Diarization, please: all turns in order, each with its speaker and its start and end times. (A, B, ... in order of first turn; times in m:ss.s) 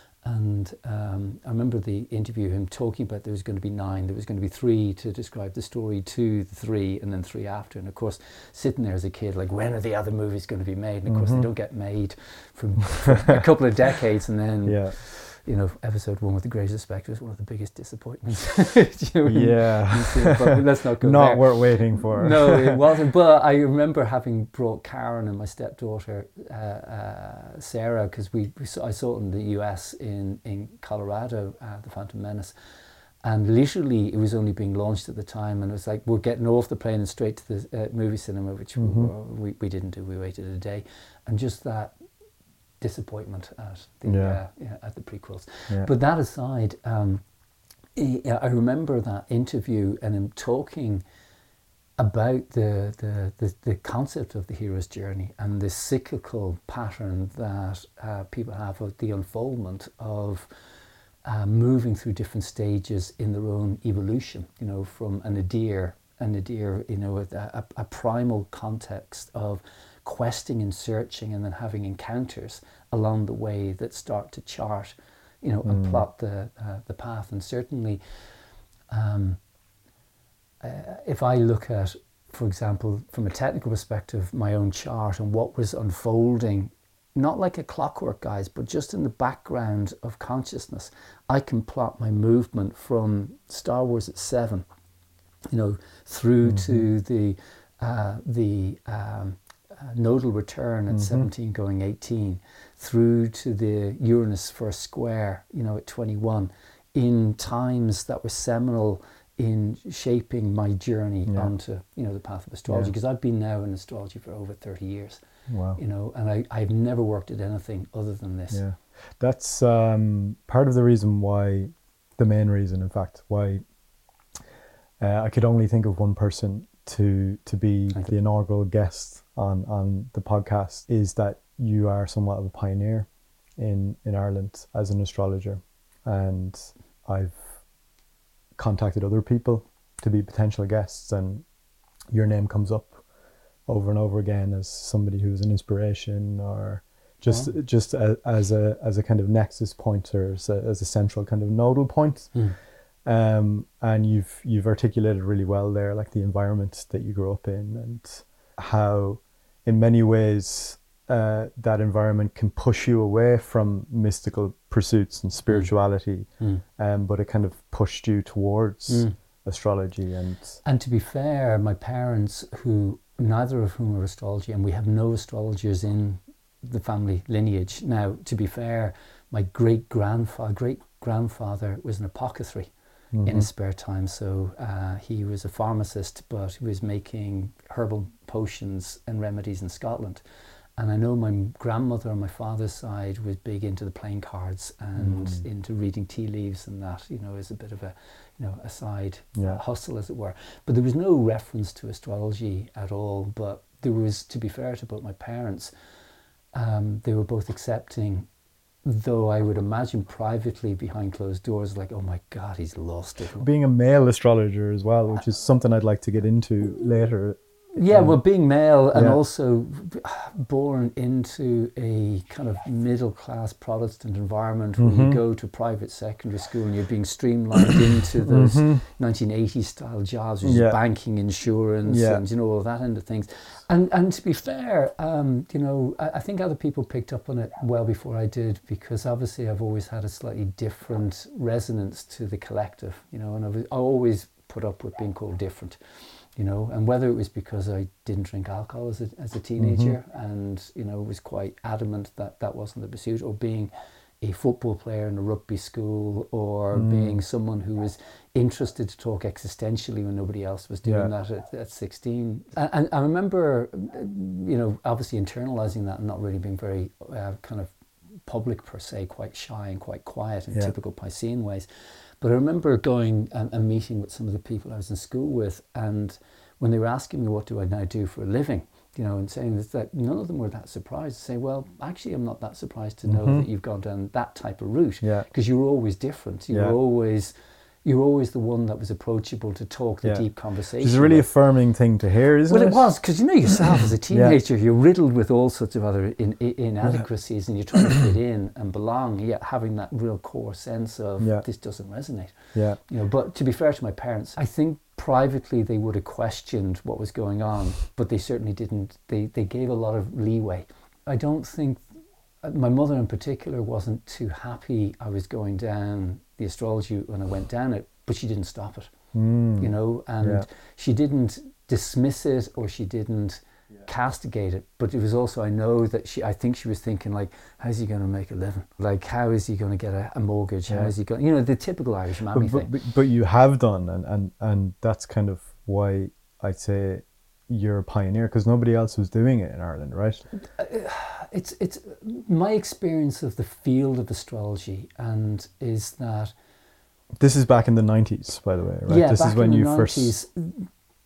0:00.2-0:32.5 A
0:11.1-0:11.5 B
0:14.6-0:15.0 B
0:19.2-0:22.8 B
0:33.2-0:42.0 A
0:38.8-0:39.1 B
0:42.8-0:47.2 A
0:44.0-0:44.4 B
0:48.0-0:51.0 A
0:52.0-1:00.5 A
1:01.2-1:18.0 A
1:15.7-1:16.0 B
1:18.9-1:19.4 A
1:20.6-1:34.6 A
1:35.5-1:55.2 A
1:36.4-1:36.8 B
1:40.9-1:41.3 B
1:52.7-1:52.9 B
1:55.5-1:55.8 B
1:55.7-1:58.6 A
1:58.5-2:03.6 B
2:05.0-2:17.6 B
2:18.6-2:21.4 B
2:22.1-2:23.0 B
2:23.7-2:32.4 B
2:27.3-2:27.5 A
2:33.0-2:50.6 B
2:48.9-2:49.1 A
2:50.6-3:02.7 A
3:03.1-3:03.5 B
3:03.2-3:10.2 A
3:10.8-3:25.7 A
3:15.0-3:15.4 B
3:26.5-3:28.3 A
3:28.8-3:33.5 A
3:33.4-3:38.2 B
3:37.7-4:05.8 A
3:38.9-3:39.2 B
3:44.8-3:45.2 B
3:48.3-3:48.8 B
3:50.4-3:50.8 B
3:51.8-3:52.2 B
4:06.4-4:13.7 A
4:09.6-4:10.0 B
4:14.2-4:27.7 A
4:16.7-4:17.2 B
4:20.8-4:21.1 B
4:28.2-4:31.7 A
4:32.2-4:47.3 A
4:43.1-4:43.4 B
4:45.0-4:45.3 B
4:47.8-4:51.2 A
4:50.8-4:52.9 B
4:52.5-5:11.8 A
4:53.7-4:54.4 B
5:01.2-5:01.4 B
5:02.5-5:02.8 B
5:12.4-5:18.9 A
5:19.1-5:19.7 B
5:19.6-5:32.7 A
5:32.3-5:40.2 B
5:40.6-5:46.3 A
5:47.2-5:50.1 B
5:48.9-5:50.7 A